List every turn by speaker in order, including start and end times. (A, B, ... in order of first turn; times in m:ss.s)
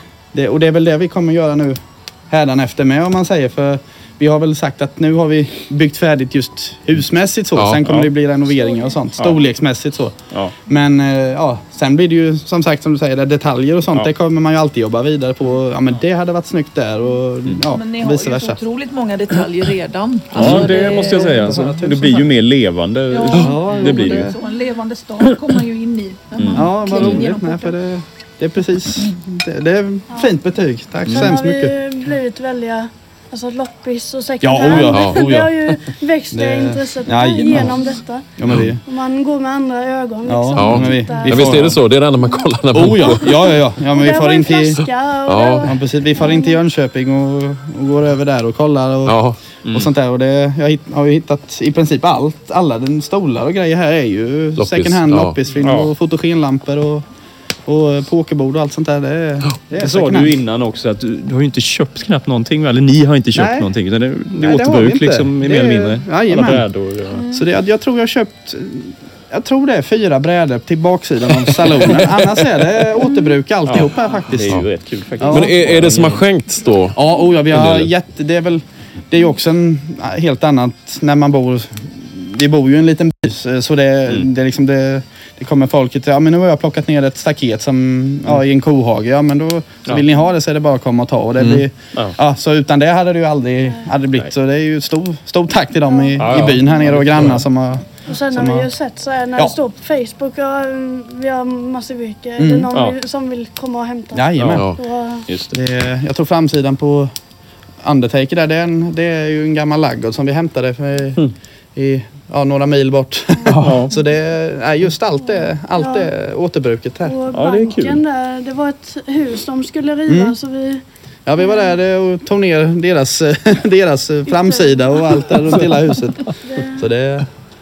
0:00.3-0:18.6 A
0:07.6-0:07.8 B
0:07.8-0:08.1 C
0:17.6-0:21.4 D
0:20.3-0:24.3 C
0:20.4-0:22.3 A
0:23.1-0:27.8 D
0:23.3-0:24.4 A
0:26.4-0:26.6 C
0:26.6-0:31.7 A
0:31.1-0:41.7 E
0:34.4-0:35.5 A
0:34.9-0:35.2 B
0:36.3-0:37.8 A
0:38.4-0:38.8 A
0:40.3-0:41.8 A
0:40.6-0:43.5 B
0:42.7-0:44.8 A
0:43.0-0:46.6 E
0:45.2-0:45.7 B
0:45.6-0:57.0 A
0:49.0-0:49.4 B
0:54.6-0:55.4 B
0:55.6-0:55.9 C
0:57.6-1:00.4 A
0:59.7-1:07.2 C
1:03.3-1:03.7 A
1:04.4-1:06.7 A
1:07.1-1:07.4 E
1:07.3-1:14.6 A
1:13.0-1:13.3 E
1:13.7-1:16.2 C
1:15.2-1:15.6 A
1:15.3-1:17.0 B
1:17.0-1:38.7 A
1:17.5-1:17.9 B
1:33.7-1:33.9 E
1:35.9-1:36.2 E
1:36.2-1:37.4 C
1:38.0-1:45.3 E
1:42.4-1:42.7 A
1:44.1-1:44.7 A
1:45.3-1:45.6 C
1:45.5-1:47.1 A
1:47.8-1:51.2 A
1:51.8-1:57.2 A
1:53.5-1:53.8 B
1:53.6-1:53.9 C
1:55.7-1:56.1 E
1:57.0-2:00.8 E
1:57.3-1:58.0 C
2:00.1-2:00.4 A
2:01.3-2:07.3 A
2:01.4-2:01.8 E
2:04.3-2:05.3 E
2:06.4-2:06.9 E